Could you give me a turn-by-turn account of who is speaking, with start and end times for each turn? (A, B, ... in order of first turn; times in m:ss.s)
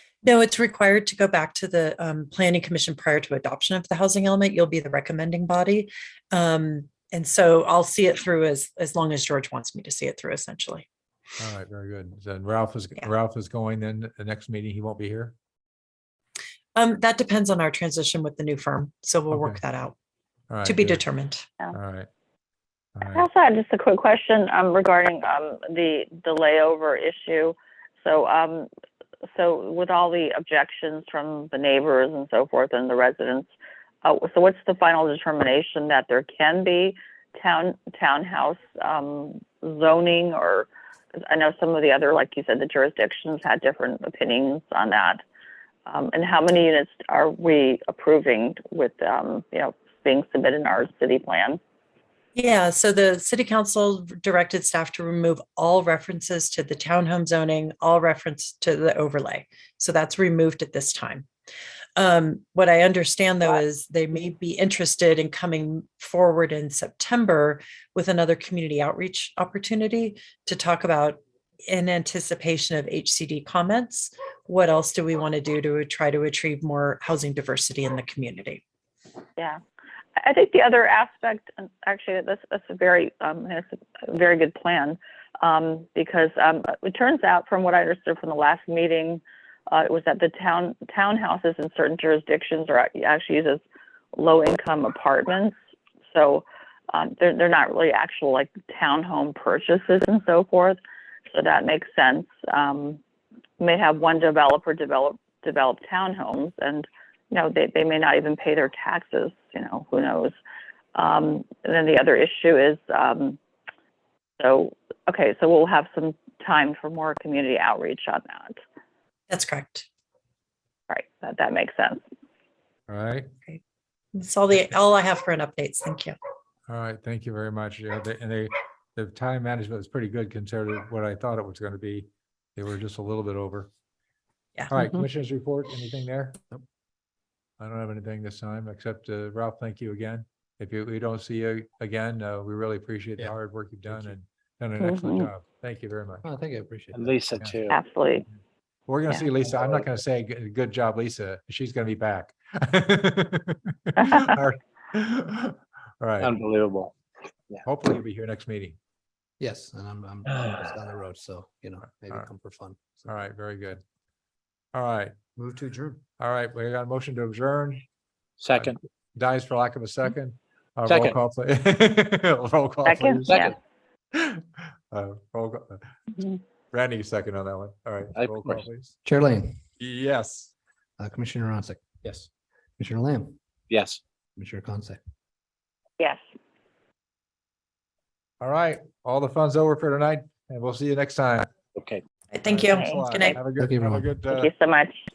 0:00.2-0:10.9 A
0:11.4-0:15.4 B
0:16.8-0:20.0 A
0:19.3-0:19.6 B
0:20.5-0:21.0 B
0:20.6-0:21.5 A
0:21.7-0:22.1 B
0:23.0-0:23.2 B
0:23.1-0:28.7 C
0:29.3-0:33.5 C
0:34.0-0:40.7 C
0:41.3-0:45.2 C
0:45.9-0:51.6 C
0:52.4-1:01.3 A
1:02.0-1:18.6 A
1:20.2-1:33.6 C
1:34.1-1:35.5 C
1:36.1-1:40.8 C
1:41.3-1:43.0 C
1:43.6-1:50.4 C
1:51.0-1:53.4 C
1:54.4-1:58.6 C
1:59.3-1:59.9 A
2:00.9-2:02.0 C
2:02.9-2:03.3 B
2:04.1-2:06.2 A
2:06.7-2:13.7 B
2:14.7-2:16.4 B
2:17.6-2:26.2 B
2:24.8-2:25.3 C
2:26.2-2:27.2 D
2:26.9-2:27.8 E
2:27.7-2:28.3 C
2:28.9-2:36.3 B
2:36.2-2:36.9 E
2:37.6-2:38.8 B
2:39.4-2:43.1 D
2:43.1-2:43.8 B
2:44.7-2:45.2 B
2:45.4-2:46.0 D
2:46.2-2:47.8 B
2:48.4-2:48.8 E
2:48.5-2:53.4 B
2:50.9-2:51.2 E
2:52.8-2:53.6 C
2:53.2-2:53.6 E
2:54.1-2:55.8 B
2:56.7-2:59.0 B
2:58.2-2:58.6 E
2:59.0-2:59.6 D
2:59.8-3:00.5 B
3:01.0-3:02.0 D
3:02.8-3:03.4 D
3:03.7-3:04.0 E
3:04.4-3:05.0 D
3:08.4-3:11.5 B
3:11.8-3:12.0 E
3:12.3-3:13.4 A
3:12.5-3:14.5 B
3:12.7-3:13.2 C
3:13.6-3:14.1 D
3:14.3-3:15.0 C